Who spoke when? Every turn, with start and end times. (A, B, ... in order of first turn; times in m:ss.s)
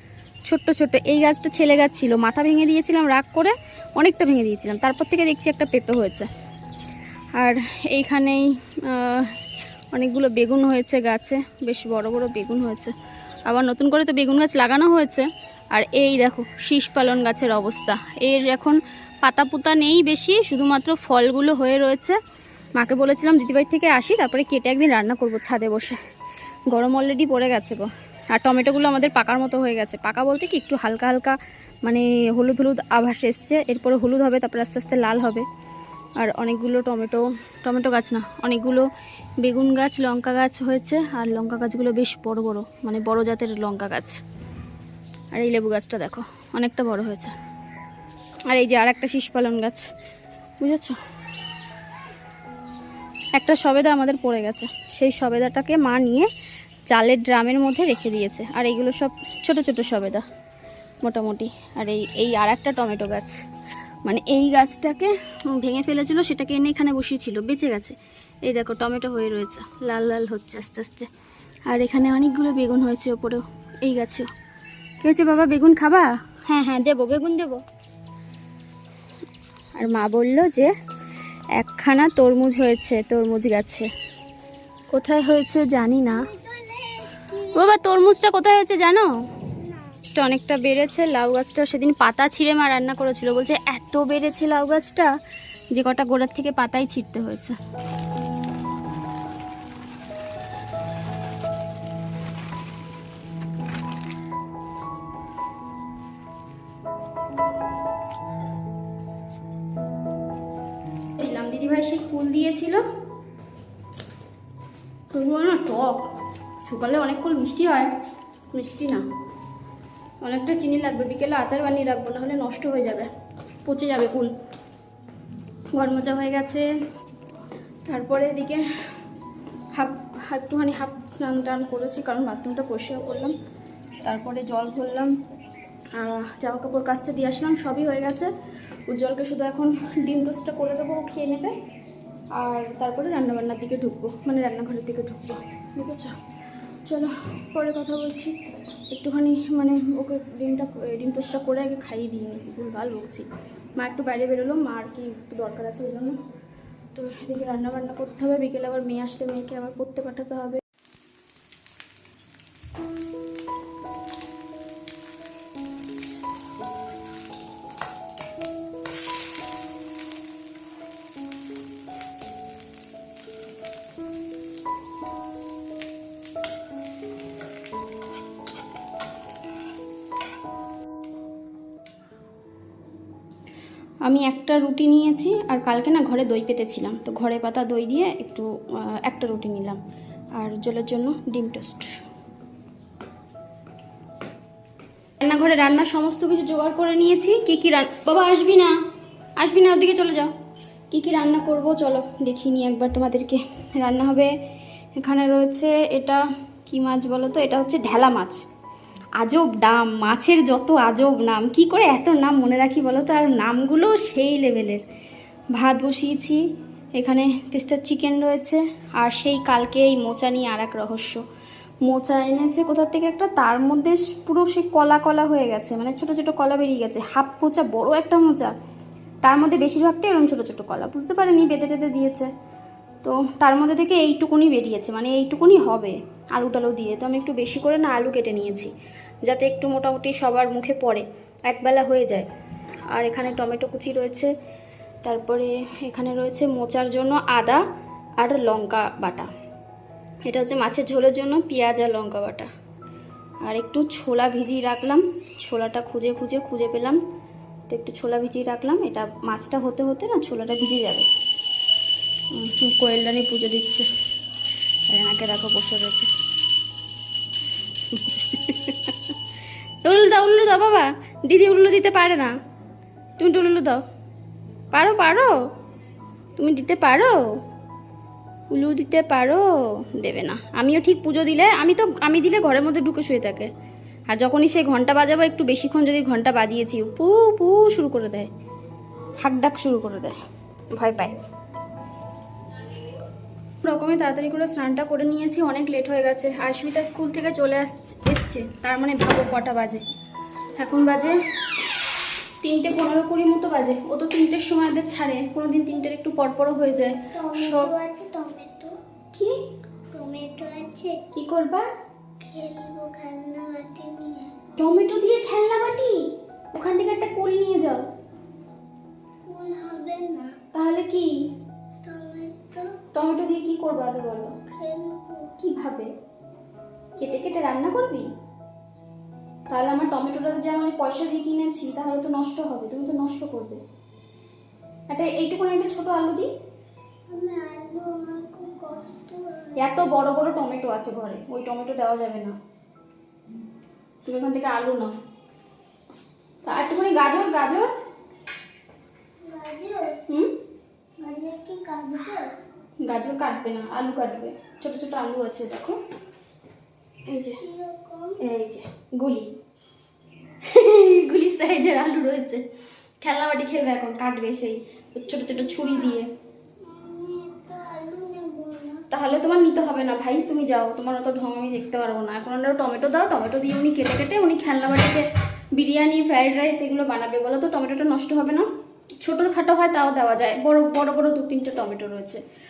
0:00.5-0:06.3 A
0:07.4-0:12.9 A
0:13.5-0:22.2 A
0:22.8-0:26.0 A
0:26.7-0:35.5 A
0:36.2-0:38.9 A
0:39.4-0:44.2 A
0:45.3-0:47.4 A
0:48.5-0:49.9 A
0:50.6-0:51.0 A
0:53.4-0:56.3 A
0:56.9-1:00.2 A
1:01.0-1:03.4 A
1:04.0-1:11.1 A
1:11.7-1:14.3 A
1:15.0-1:17.6 A
1:19.8-1:20.7 A
1:21.6-1:23.9 A
1:24.9-1:26.3 A
1:26.1-1:27.8 B
1:27.5-1:29.1 A
1:29.6-1:30.0 B
1:30.0-1:35.1 A
1:35.7-1:37.6 A
1:51.2-1:52.8 A
1:55.1-1:56.1 A
1:56.6-1:57.9 A
1:58.5-1:59.1 A
2:00.2-2:03.1 A
2:03.7-2:04.3 A
2:05.8-2:06.7 A
2:07.9-2:08.7 A
2:09.8-2:13.4 A
2:14.0-2:15.1 A
2:16.0-2:18.3 A
2:18.9-2:21.6 A
2:22.4-2:26.2 A
2:26.8-2:28.4 A
2:28.9-2:36.2 A
2:36.9-2:40.6 A
3:04.0-3:09.8 A
3:10.4-3:12.0 A
3:15.2-3:18.8 A
3:19.4-3:20.3 A
3:20.9-3:24.3 A
3:25.0-3:28.4 A
3:29.2-3:34.8 A
3:35.5-3:36.4 A
3:37.0-3:41.2 A
3:41.8-3:48.5 A
3:49.2-3:52.3 A
3:53.0-3:58.7 A
3:59.2-4:02.3 A
4:02.9-4:04.3 A
4:05.0-4:07.6 A
4:08.2-4:09.3 A
4:10.2-4:12.5 A
4:13.4-4:17.0 A
4:17.7-4:21.1 A
4:22.3-4:23.9 A
4:24.9-4:26.1 A
4:27.9-4:29.2 A
4:29.8-4:32.3 A
4:33.2-4:33.8 A
4:34.7-4:35.4 A
4:36.4-4:37.4 A
4:38.5-4:43.5 A
4:44.1-4:48.3 A
4:49.2-4:50.2 A
4:50.7-4:51.2 A
4:53.6-4:59.8 A
5:00.6-5:01.2 A
5:02.4-5:07.7 A
5:07.1-5:08.8 B
5:09.1-5:09.4 A
5:09.9-5:11.1 B
5:11.1-5:11.7 A
5:12.2-5:14.4 B
5:14.6-5:17.9 A
5:19.3-5:20.4 B
5:20.5-5:21.2 A
5:21.8-5:22.8 B
5:22.9-5:24.4 A
5:24.5-5:25.3 B
5:25.4-5:25.9 A
5:27.0-5:28.1 A
5:29.5-5:33.6 A
5:34.9-5:36.3 A
5:37.1-5:39.8 B
5:39.6-5:42.4 A
5:44.0-5:45.0 A
5:46.4-5:47.7 A
5:49.2-5:50.0 B
5:50.1-5:50.3 A
5:51.0-5:52.3 B
5:52.8-5:55.8 A
5:57.1-5:57.4 A
5:57.4-5:58.2 B
5:58.2-5:59.3 A
6:00.4-6:02.4 A
6:03.0-6:06.1 A
6:05.6-6:06.0 B
6:06.6-6:08.9 B
6:08.9-6:15.0 A
6:15.6-6:18.5 A
6:19.0-6:22.2 A